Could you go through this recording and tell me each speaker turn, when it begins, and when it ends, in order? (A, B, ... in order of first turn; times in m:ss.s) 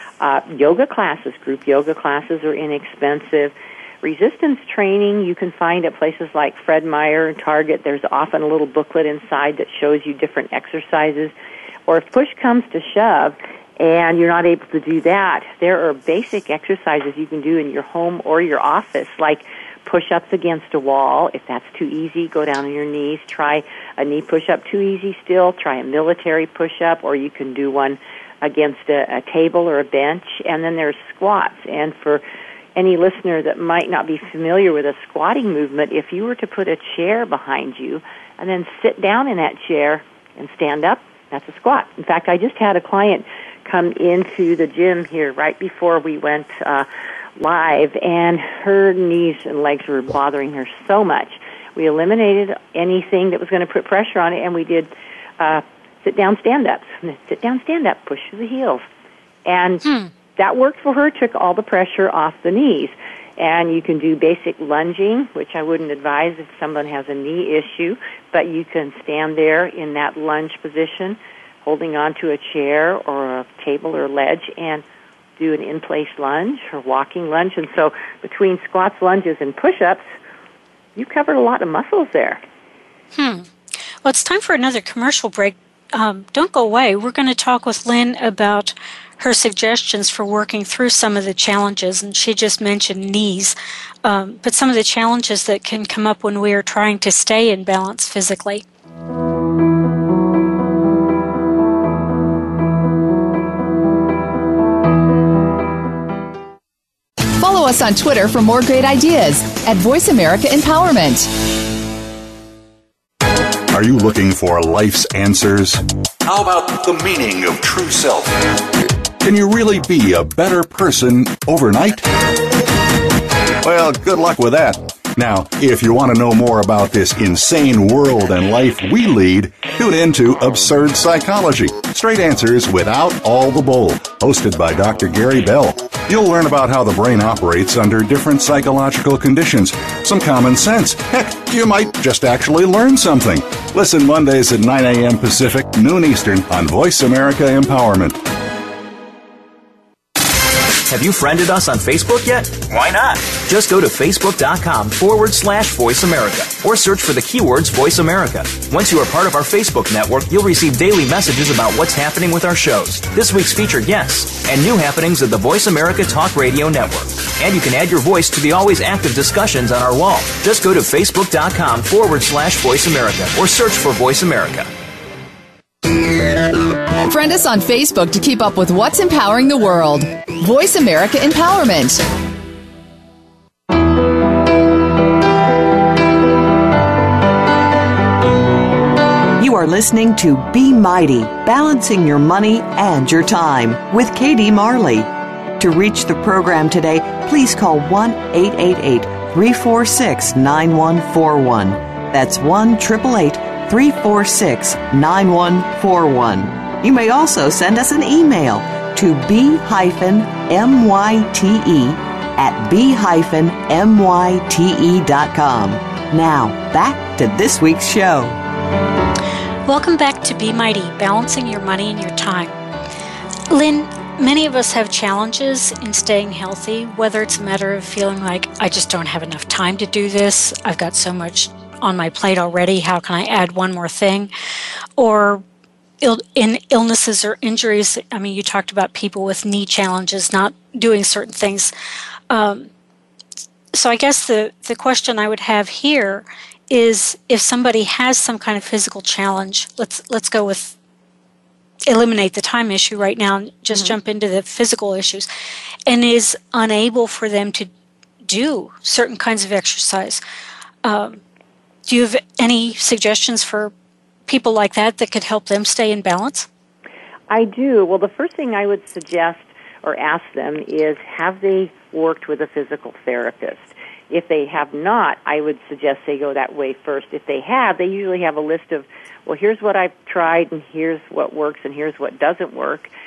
0:00.2-0:11.3 A
0:11.9-0:32.2 A
0:32.8-0:58.8 A
0:59.4-0:59.8 A
0:59.8-1:00.1 B
1:00.3-1:14.8 A
1:15.4-1:20.0 A
1:21.0-1:22.4 A
1:23.1-1:23.5 B
1:24.0-1:38.6 B
1:47.3-1:51.3 C
1:53.7-1:58.5 D
1:59.2-2:02.2 D
2:03.6-2:28.2 D
2:30.8-2:54.7 E
2:57.0-3:02.0 C
3:09.4-3:38.4 F
3:39.6-3:42.6 B
3:43.5-3:54.3 B
3:55.0-3:55.4 B
3:56.0-4:01.7 B
4:02.3-4:02.7 B
4:03.7-4:10.8 B
4:11.9-4:15.3 B
4:13.7-4:14.0 A
4:15.9-4:17.7 B
4:18.2-4:20.2 B
4:20.8-4:21.2 B
4:21.8-4:23.7 B
4:24.3-4:26.5 B
4:27.3-4:42.9 A